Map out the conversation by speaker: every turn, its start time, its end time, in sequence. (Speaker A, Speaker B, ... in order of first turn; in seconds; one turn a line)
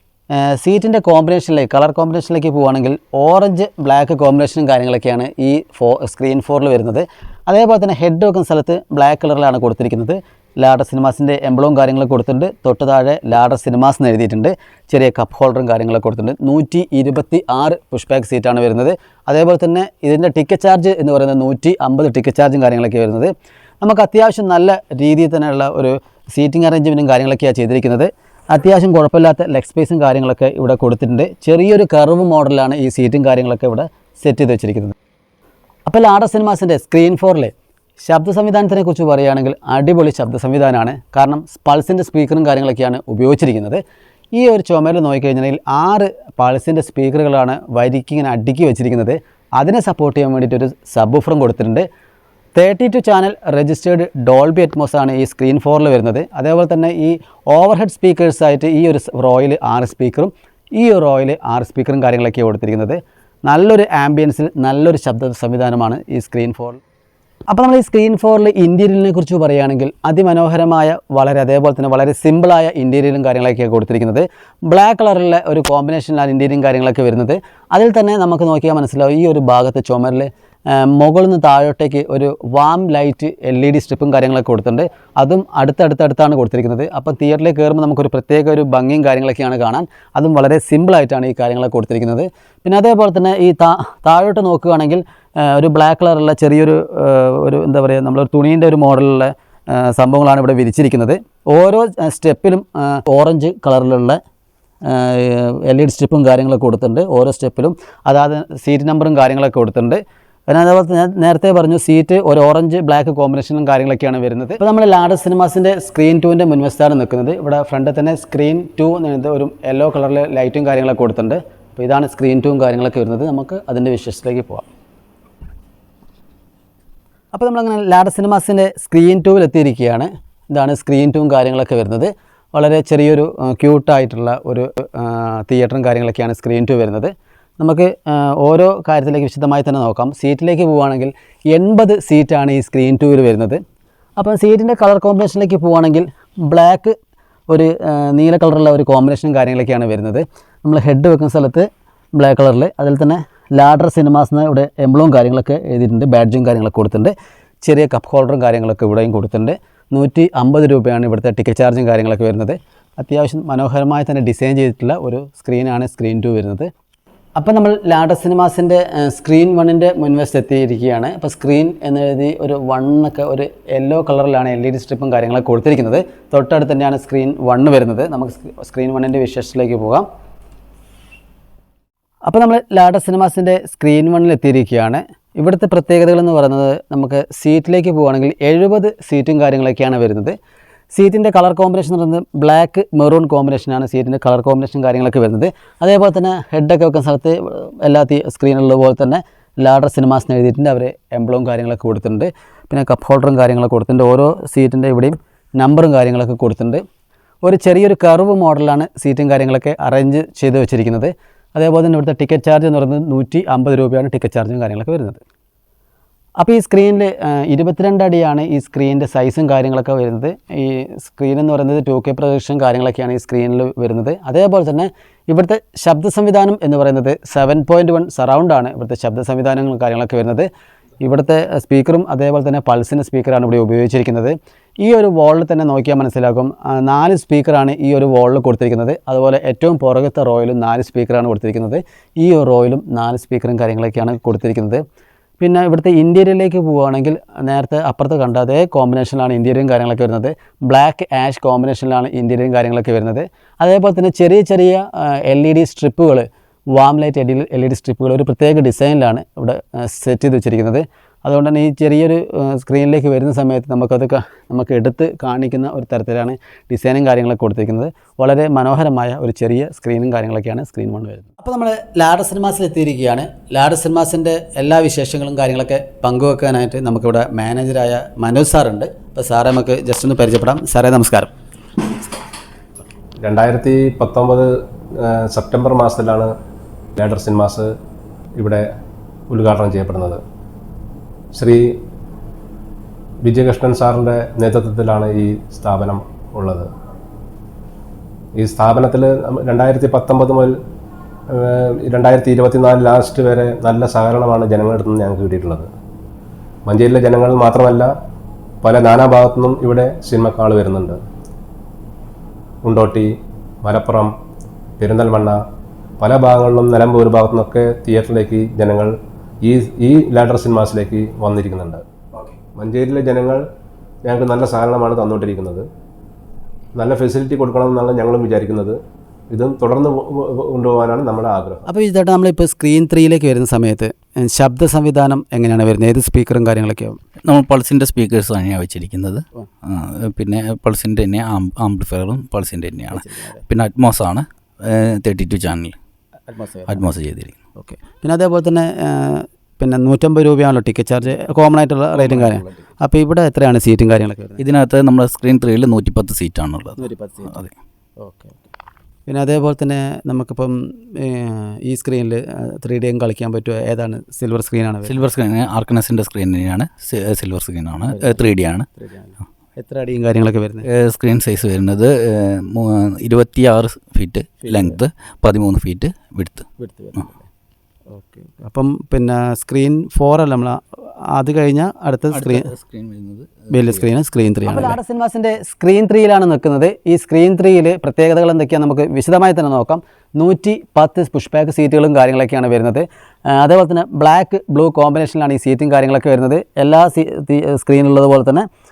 Speaker A: 0.3-35.0
Speaker A: 35.9-43.8
Speaker A: 44.3-51.9
Speaker A: 52.5-66.8
Speaker A: 67.5-104.2
Speaker A: 104.8-124.7
Speaker A: 127.3-143.6
Speaker A: 144.2-147.0
Speaker A: 147.5-166.7
Speaker A: 167.4-180.1
Speaker A: 182.2-190.4
Speaker A: 190.9-206.8
Speaker A: 207.4-215.2
Speaker A: 216.4-230.5
Speaker A: 231.0-244.8
Speaker A: 245.4-281.3
Speaker B: 283.2-286.3
Speaker B: 287.0-287.7
Speaker B: 288.4-288.7
Speaker B: 289.3-290.2
Speaker B: 291.3-291.8
Speaker B: 293.2-296.7
Speaker B: 298.4-300.6
Speaker B: 301.3-305.7
Speaker B: 306.7-307.9
Speaker B: 308.6-311.0
Speaker B: 312.6-314.1
Speaker B: 314.8-315.4
Speaker B: 316.0-321.8
Speaker B: 322.6-323.4
Speaker B: 324.1-325.7
Speaker B: 326.8-328.8
Speaker B: 329.3-331.7
Speaker A: 331.7-337.0
Speaker C: 337.2-345.7
Speaker A: 342.9-343.4
Speaker A: 346.3-346.8
Speaker C: 346.7-347.4
Speaker A: 347.6-354.4
Speaker C: 352.0-352.5
Speaker C: 354.4-357.5
Speaker A: 356.8-357.3
Speaker A: 358.0-358.5
Speaker A: 359.1-364.9
Speaker C: 364.9-368.7
Speaker A: 367.9-368.3
Speaker A: 368.8-370.7
Speaker C: 370.6-376.5
Speaker A: 374.4-374.8
Speaker A: 376.6-377.2
Speaker A: 377.9-382.5
Speaker C: 382.1-384.8
Speaker A: 383.5-398.5